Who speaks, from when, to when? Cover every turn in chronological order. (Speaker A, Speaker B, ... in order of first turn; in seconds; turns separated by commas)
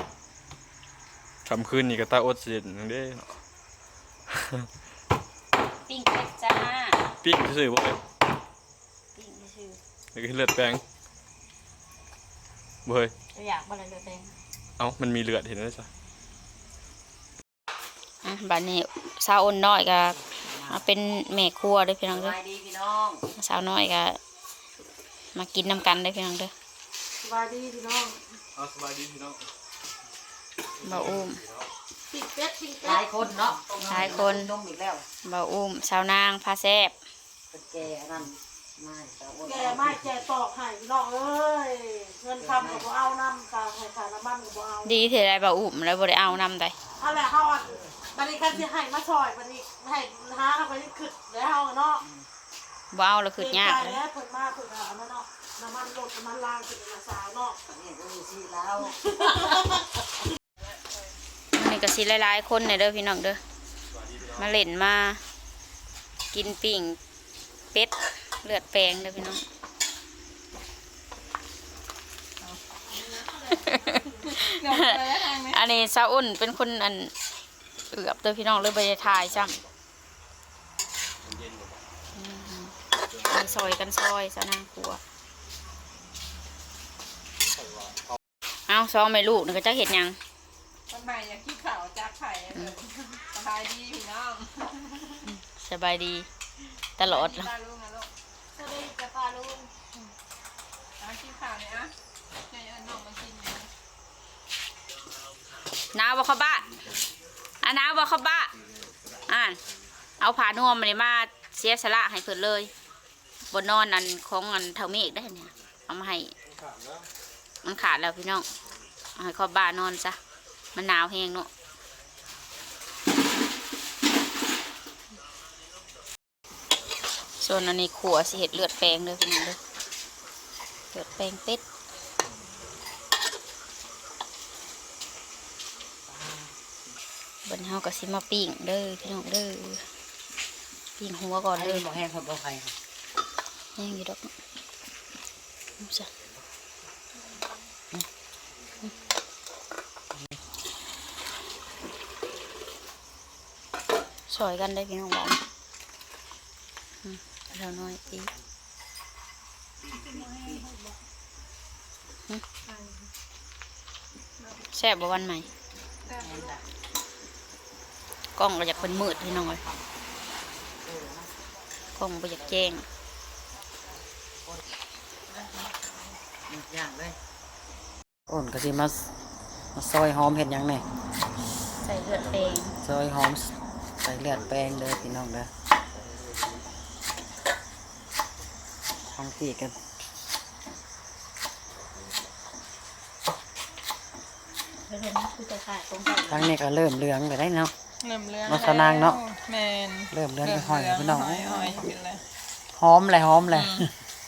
Speaker A: 1.5-3.3, Speaker A: 4.3-4.6, Speaker B: 5.9-7.0, Speaker A: 7.2-8.0, Speaker B: 9.2-9.8, Speaker A: 10.2-10.8, Speaker A: 12.9-13.1, Speaker B: 13.3-14.3, Speaker A: 14.8-15.9, Speaker B: 18.2-22.4, Speaker C: 20.3-20.8, Speaker C: 22.1-23.2, Speaker B: 23.4-24.2, Speaker B: 25.3-26.5, Speaker D: 27.2-28.2, Speaker A: 28.6-29.4, Speaker B: 30.8-31.4, Speaker A: 30.9-31.2, Speaker D: 32.1-33.0, Speaker C: 32.8-35.0, Speaker B: 33.9-34.5, Speaker B: 35.2-37.0, Speaker C: 37.5-40.0, Speaker D: 39.4-45.1, Speaker C: 42.4-42.9, Speaker B: 44.8-46.8, Speaker D: 47.0-52.0, Speaker B: 52.9-54.0, Speaker D: 53.4-57.6, Speaker C: 57.7-59.7, Speaker B: 61.5-63.4, Speaker B: 64.2-65.2, Speaker B: 66.3-67.0, Speaker B: 67.7-69.4, Speaker E: 72.4-75.6, Speaker B: 73.5-77.1, Speaker B: 77.9-79.6, Speaker B: 82.1-82.7, Speaker B: 83.2-85.0, Speaker B: 88.7-90.2, Speaker E: 90.9-95.2, Speaker B: 95.2-96.3, Speaker B: 97.0-97.5, Speaker E: 97.0-98.1, Speaker D: 98.6-99.7, Speaker E: 101.0-101.9, Speaker E: 102.5-103.7, Speaker B: 105.9-106.8, Speaker B: 107.6-108.5, Speaker B: 109.3-109.6, Speaker B: 110.2-112.7, Speaker B: 113.5-116.3, Speaker B: 117.6-118.5, Speaker B: 119.2-120.2, Speaker B: 120.8-121.5, Speaker B: 127.4-129.6, Speaker B: 130.9-131.6, Speaker C: 136.1-136.6, Speaker B: 137.4-139.8, Speaker B: 141.0-141.9, Speaker C: 141.6-142.7, Speaker B: 143.8-144.3, Speaker B: 145.8-146.1, Speaker B: 154.3-155.4, Speaker B: 157.0-158.3, Speaker B: 164.7-165.5, Speaker E: 166.1-166.5, Speaker C: 166.2-166.6, Speaker B: 168.4-169.6, Speaker C: 168.8-169.2, Speaker C: 170.8-171.3, Speaker B: 172.0-172.8, Speaker C: 176.5-177.2, Speaker C: 178.3-179.1, Speaker C: 179.8-180.8, Speaker B: 181.7-182.8, Speaker C: 182.8-185.5, Speaker C: 189.1-189.7, Speaker B: 194.9-196.5, Speaker C: 196.3-197.7, Speaker E: 198.0-202.2, Speaker C: 198.5-199.2, Speaker C: 200.1-201.7, Speaker C: 202.7-203.9, Speaker E: 203.5-203.9